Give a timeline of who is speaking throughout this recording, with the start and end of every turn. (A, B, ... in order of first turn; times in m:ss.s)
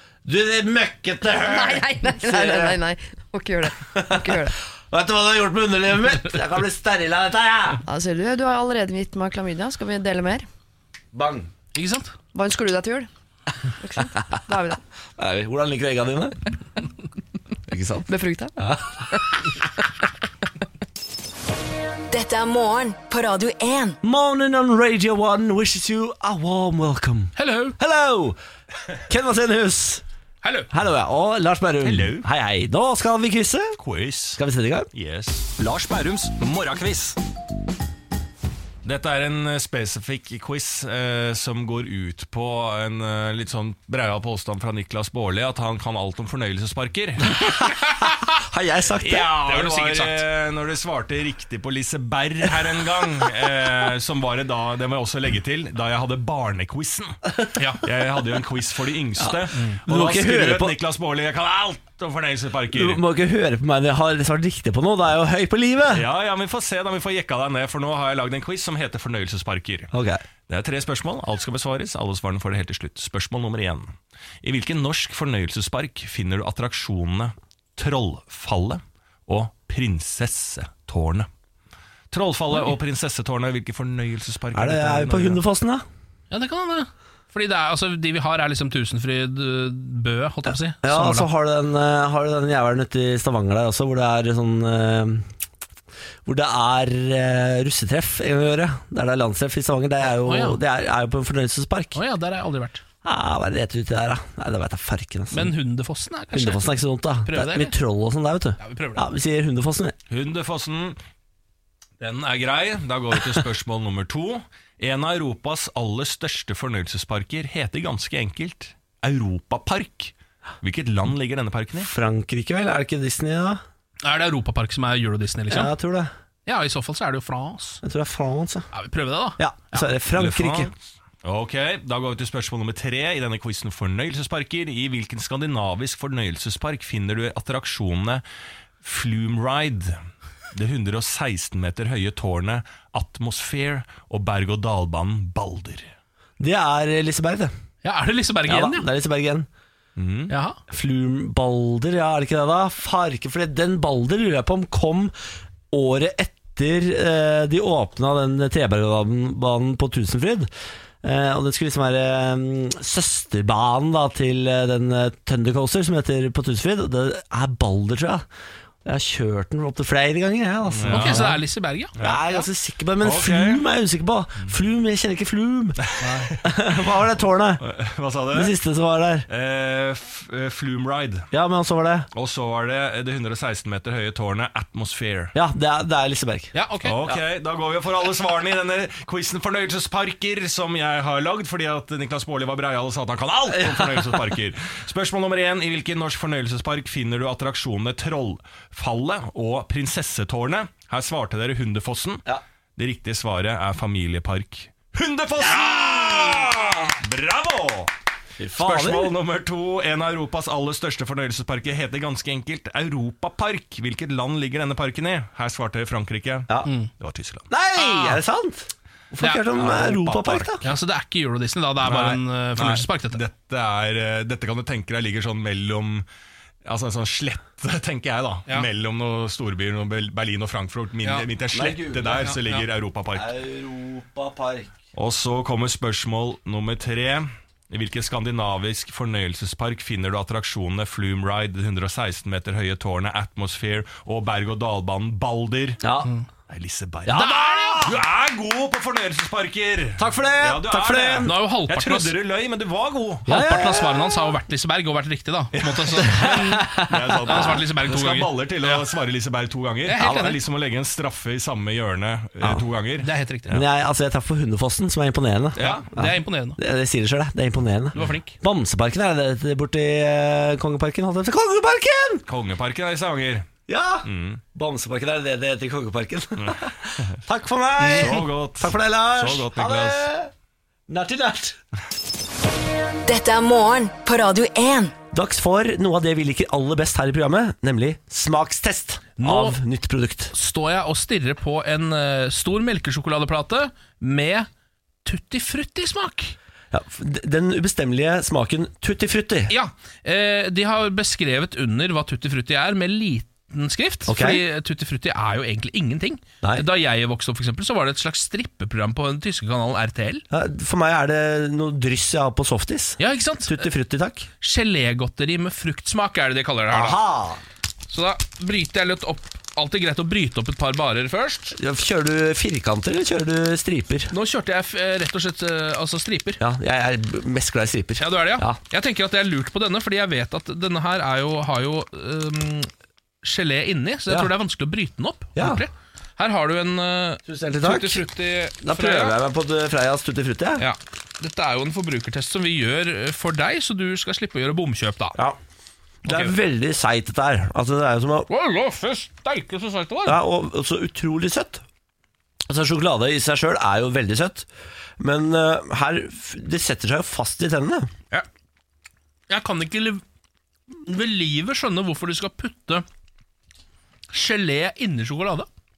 0:00.2-0:02.8 A
0:01.4-0:04.6 B
0:03.8-0:07.8 A
0:07.9-0:10.5 B
0:11.1-0:11.5 A
0:11.7-0:12.1 C
0:12.3-0:13.1 B
0:13.8-0:14.8 B
0:15.2-0:16.5 A
0:17.7-0:18.1 A
0:18.1-0:18.6 B
0:18.6-0:19.2 A
0:22.1-0:24.0 D
0:24.0-0:28.4 A
0:27.4-0:27.8 C
0:29.1-0:30.0 A
0:30.4-0:30.7 C
0:30.7-0:33.8 A
0:31.8-0:32.3 E
0:33.8-0:34.4 E
0:34.4-0:34.9 A
0:34.9-0:37.2 E
0:38.8-0:47.4 E
0:47.3-0:49.3 A
0:47.9-0:48.2 C
0:49.0-0:57.2 E
0:49.3-0:50.2 C
0:57.6-0:57.8 C
0:57.8-1:03.0 E
0:59.2-1:00.8 A
1:02.7-1:06.1 A
1:05.9-1:09.9 E
1:09.9-1:10.2 A
1:10.5-1:21.3 E
1:22.1-1:25.4 E
1:24.5-1:25.8 A
1:26.3-1:31.3 C
1:30.8-1:35.3 A
1:36.3-1:42.0 A
1:40.2-1:40.6 C
1:42.0-1:42.8 C
1:43.0-1:45.5 A
1:45.3-1:46.7 C
1:46.3-1:50.0 A
1:47.2-1:47.7 C
1:48.6-1:49.1 C
1:50.1-1:51.0 E
1:52.0-2:01.9 E
2:01.8-2:03.6 A
2:04.0-2:05.7 C
2:05.5-2:06.1 A
2:06.5-2:07.8 C
2:07.8-2:08.7 A
2:08.7-2:09.9 C
2:09.4-2:10.7 A
2:10.2-2:10.7 E
2:11.2-2:18.2 E
2:18.8-2:20.0 E
2:20.5-2:25.9 E
2:26.4-2:27.5 A
2:27.8-2:28.9 C
2:28.5-2:29.5 A
2:30.0-2:30.3 E
2:30.3-2:30.6 C
2:30.7-2:35.1 A
2:35.7-2:40.5 A
2:41.0-2:48.3 A
2:48.8-2:51.4 A
2:50.7-2:51.4 E
2:50.9-2:52.0 C
2:52.0-2:52.3 E
2:52.0-2:57.6 A
2:53.0-2:53.6 E
2:55.8-2:56.8 E
2:56.0-2:56.3 C
2:57.6-2:58.5 E
2:58.3-2:59.3 A
2:59.3-3:01.3 E
3:01.3-3:02.1 A
3:02.1-3:05.3 E
3:05.4-3:06.5 A
3:06.5-3:07.0 C
3:06.8-3:22.2 E
3:13.6-3:14.1 A
3:22.8-3:27.9 E
3:26.2-3:26.5 A
3:28.4-3:29.2 A
3:28.6-3:37.5 E
3:36.6-3:36.9 C
3:37.5-3:40.6 A
3:37.8-3:38.2 C
3:39.2-3:39.5 C
3:39.6-3:40.7 E
3:40.6-3:43.2 C
3:41.8-3:46.1 E
3:46.6-3:53.3 E
3:51.5-3:52.4 A
3:52.2-3:52.6 C
3:53.1-3:54.8 A
3:54.9-4:05.8 E
4:05.8-4:06.1 A
4:06.5-4:13.3 E
4:07.1-4:08.0 A
4:07.1-4:07.9 C
4:10.0-4:11.3 A
4:11.2-4:12.1 C
4:13.3-4:14.2 A
4:13.3-4:16.7 C
4:15.5-4:23.6 E
4:16.0-4:17.6 A
4:17.2-4:18.8 C
4:19.9-4:20.4 C
4:23.0-4:23.6 C
4:23.5-4:32.2 A
4:25.6-4:25.9 E
4:25.6-4:26.6 C
4:28.0-4:28.4 C
4:32.3-4:33.5 E
4:33.7-4:40.3 A
4:34.0-4:34.4 E
4:36.4-4:37.2 E
4:37.8-4:38.2 C
4:37.9-4:40.1 E
4:40.9-4:41.6 A
4:43.1-4:45.0 D
4:45.1-4:50.3 A
4:49.2-4:49.6 C
4:50.3-4:54.5 C
4:55.0-4:56.4 C
4:56.7-4:59.5 A
4:59.5-5:10.2 C
5:04.1-5:04.4 A
5:10.3-5:14.3 A
5:13.0-5:13.7 C
5:14.4-5:17.0 C
5:16.7-5:17.4 A
5:17.9-5:21.6 C
5:21.6-5:24.1 A
5:24.1-5:26.4 C
5:26.4-5:28.6 A
5:28.0-5:32.7 C
5:33.2-5:39.2 C
5:35.4-5:35.6 A
5:37.3-5:38.0 A
5:38.6-5:40.6 A
5:40.6-5:45.2 C
5:46.0-5:46.4 C
5:46.0-5:48.3 A
5:48.3-5:50.2 C
5:50.0-5:51.6 A
5:52.5-5:54.5 A
5:55.0-5:57.9 A
5:59.3-6:00.0 C
6:00.8-6:02.8 C
6:04.1-6:05.5 C